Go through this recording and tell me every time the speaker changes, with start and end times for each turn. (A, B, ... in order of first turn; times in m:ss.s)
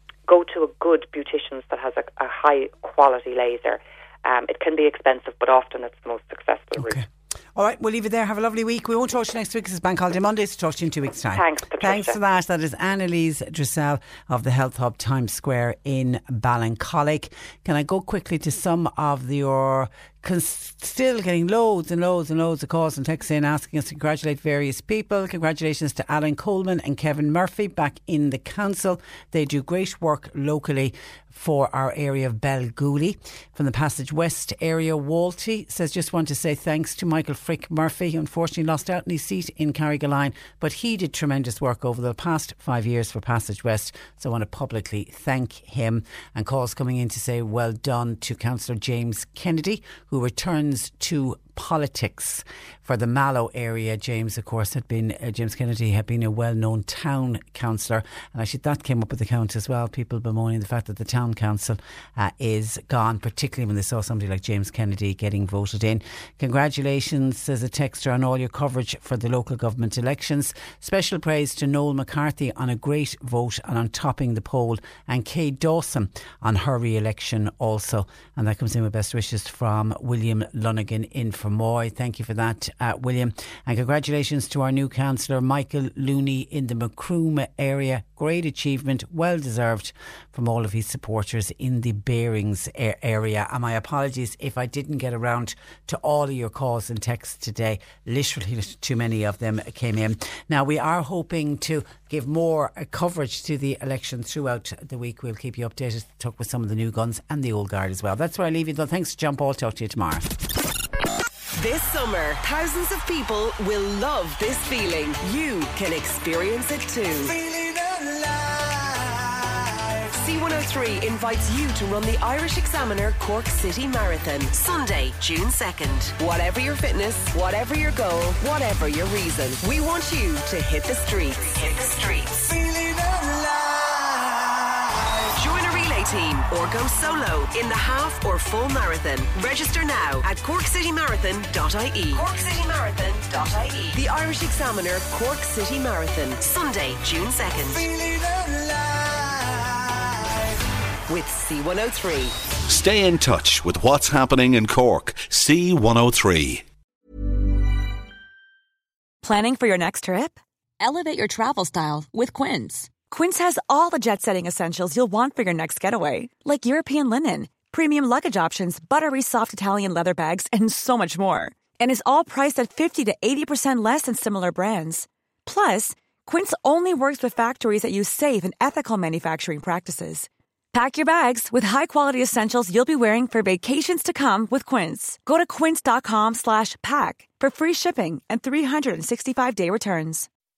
0:00.3-0:07.0 A
0:06.8-1:50.3 B
0:11.4-0:12.2 A
1:51.6-1:57.4 C
1:58.2-1:58.8 D
2:00.1-2:12.5 C
2:15.3-2:27.9 C
2:27.9-2:29.7 D
2:31.1-2:32.4 C
2:32.7-2:36.6 D
2:39.2-3:10.3 E